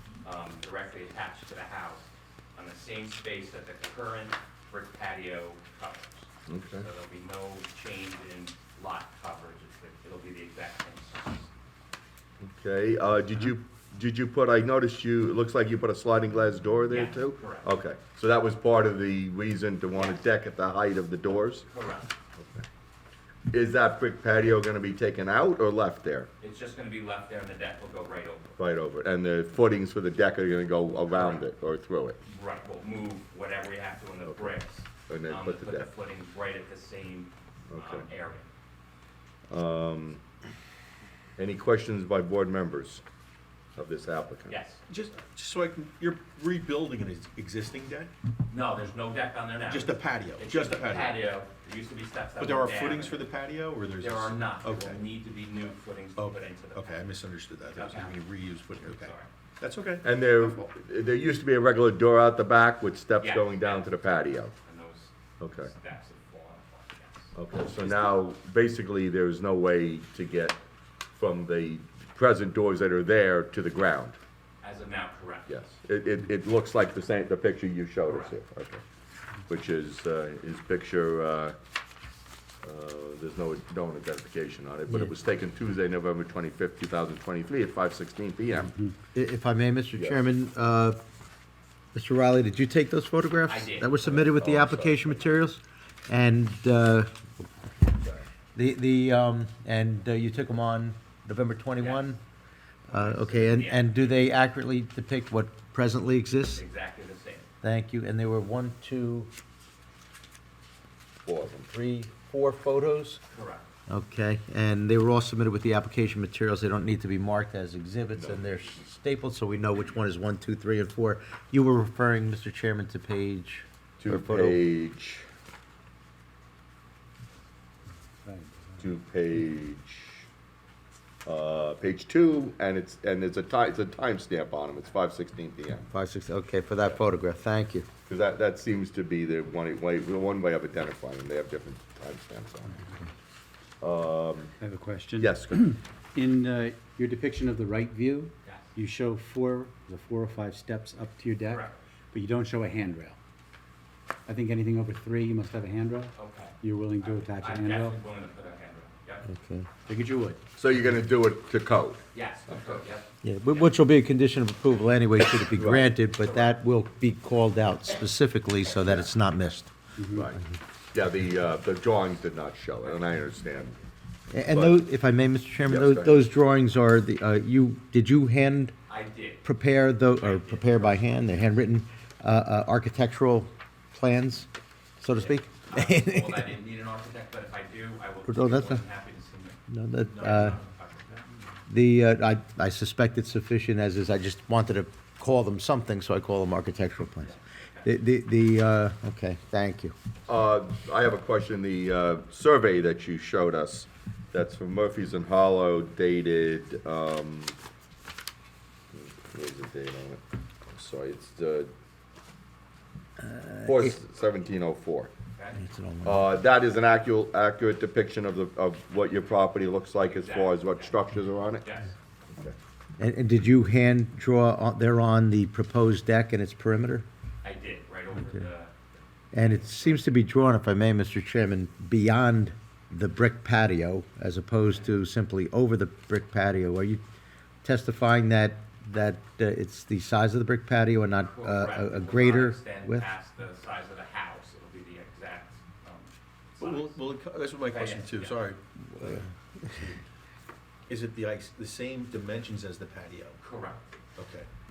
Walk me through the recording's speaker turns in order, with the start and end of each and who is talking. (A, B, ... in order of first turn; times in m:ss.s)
0:00.2-0:11.5 A
0:06.5-0:06.9 B
0:12.4-0:21.6 B
0:16.9-0:17.7 A
0:20.0-0:20.3 A
0:21.7-0:22.1 A
0:22.4-0:22.6 B
0:23.5-0:26.3 B
0:26.4-0:28.6 A
0:28.6-0:32.2 B
0:31.1-0:31.4 A
0:32.2-0:38.5 A
0:34.2-0:34.6 B
0:35.1-0:35.9 B
0:37.7-0:38.0 B
0:39.5-0:40.2 B
0:41.4-0:43.0 B
0:43.8-0:44.6 B
0:44.5-0:44.8 A
0:44.9-0:48.1 C
0:48.5-0:53.3 A
0:49.7-0:51.2 C
0:52.4-0:55.0 C
0:54.0-0:57.0 A
0:56.2-1:00.7 C
0:57.7-0:58.2 A
0:58.8-0:59.3 A
1:00.0-1:04.5 B
1:03.2-1:04.0 A
1:04.5-1:07.3 A
1:05.4-1:05.7 B
1:07.3-1:10.6 B
1:07.8-1:08.2 C
1:11.2-1:14.2 B
1:14.6-1:15.5 A
1:15.5-1:18.8 B
1:18.1-1:18.3 A
1:19.5-1:21.6 B
1:22.6-1:28.7 B
1:28.6-1:28.9 D
1:29.1-1:31.0 E
1:31.9-1:37.1 E
1:33.5-1:34.2 A
1:34.0-1:35.3 B
1:38.5-1:42.2 E
1:41.8-1:42.0 A
1:42.9-1:44.3 A
1:42.9-1:46.6 E
1:46.6-1:47.5 A
1:47.6-1:49.3 E
1:51.2-1:51.7 B
1:51.7-1:53.2 E
1:53.3-1:53.6 A
1:53.9-2:04.6 E
1:58.1-1:58.4 B
2:04.0-2:05.2 B
2:08.2-2:08.8 D
2:08.8-2:10.2 B
2:11.2-2:15.9 B
2:15.9-2:17.9 E
2:18.1-2:22.8 B
2:23.8-2:24.5 B
2:24.6-2:33.2 D
2:25.2-2:25.5 B
2:28.4-2:28.7 A
2:31.5-2:31.8 A
2:34.3-2:38.0 D
2:36.1-2:39.3 A
2:39.2-2:39.7 E
2:39.8-2:40.4 D
2:40.6-2:42.8 B
2:42.1-2:43.7 A
2:43.2-2:49.7 E
2:45.6-2:45.9 B
2:46.2-2:46.6 A
2:48.8-2:49.1 B
2:50.0-2:50.2 D
2:50.1-2:53.7 B
2:54.3-2:58.7 E
2:54.5-2:54.8 B
2:55.6-2:56.2 B
2:58.9-2:59.4 A
2:59.4-3:04.5 E
3:00.1-3:01.0 A
3:05.0-3:06.5 E
3:05.2-3:09.6 A
3:08.3-3:08.8 E
3:09.7-3:10.6 E
3:10.1-3:10.6 C
3:10.1-3:11.3 A
3:11.7-3:19.9 E
3:17.2-3:17.8 A
3:20.3-3:27.5 B
3:28.9-3:31.7 B
3:33.2-3:34.0 E
3:33.6-3:35.1 B
3:35.3-3:35.6 A
3:35.5-3:36.5 E
3:36.0-3:41.6 B
3:40.0-3:41.0 A
3:41.6-3:41.9 A
3:43.0-3:47.1 E
3:47.4-3:48.8 A
3:49.3-3:57.0 E
3:49.3-3:50.1 A
3:57.6-4:03.1 E
4:01.2-4:07.0 A
4:06.6-4:10.0 C
4:07.6-4:08.4 A
4:08.9-4:09.9 E
4:10.9-4:13.4 C
4:13.4-4:14.0 A
4:14.2-4:14.5 C